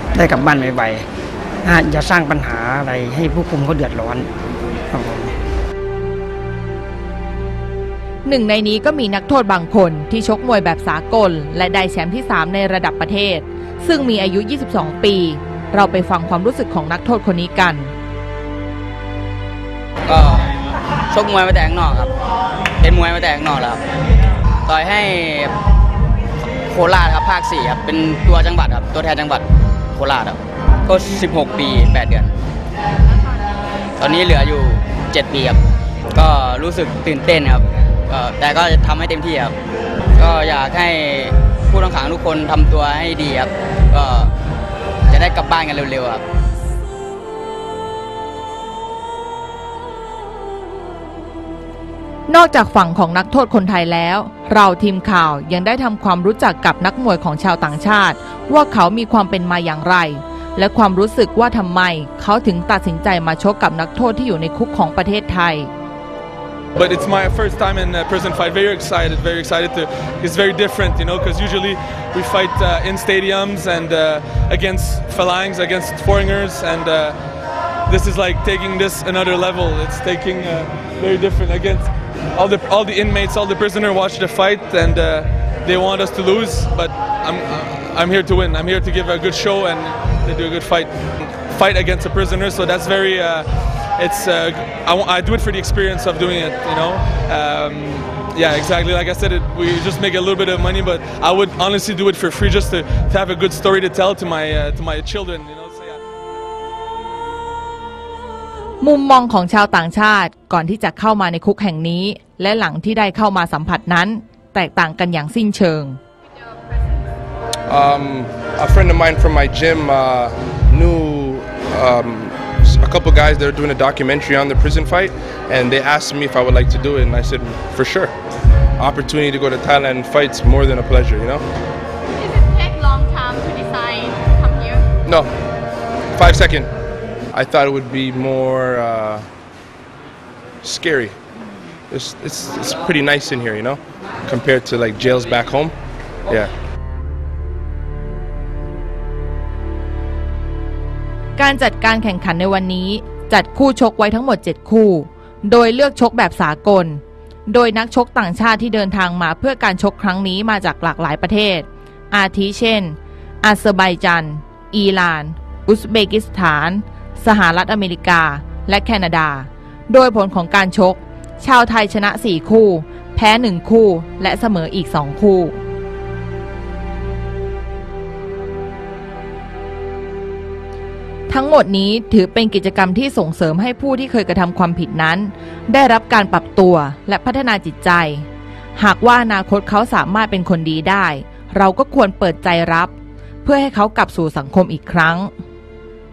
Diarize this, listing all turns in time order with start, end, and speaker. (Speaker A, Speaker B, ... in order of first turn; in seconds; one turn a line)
Speaker A: 0.1-1.0
Speaker A: 1.6-4.3
Speaker A: 4.9-5.3
Speaker B: 8.2-17.9
Speaker C: 20.1-20.5
Speaker C: 21.1-22.1
Speaker C: 22.8-23.8
Speaker C: 24.6-25.5
Speaker C: 26.7-32.3
Speaker C: 34.0-35.6
Speaker C: 36.1-39.5
Speaker C: 40.1-44.3
Speaker C: 45.1-46.2
Speaker B: 52.3-65.7
Speaker D: 66.8-77.2
Speaker D: 77.9-106.0
Speaker B: 108.8-116.0
Speaker E: 117.7-128.1
Speaker E: 128.8-131.4
Speaker F: 132.2-134.8
Speaker E: 135.0-135.3
Speaker E: 136.1-136.7
Speaker E: 137.3-139.3
Speaker E: 140.6-141.2
Speaker E: 141.9-145.7
Speaker B: 151.4-175.6
Speaker B: 181.3-192.9
Speaker B: 193.4-195.3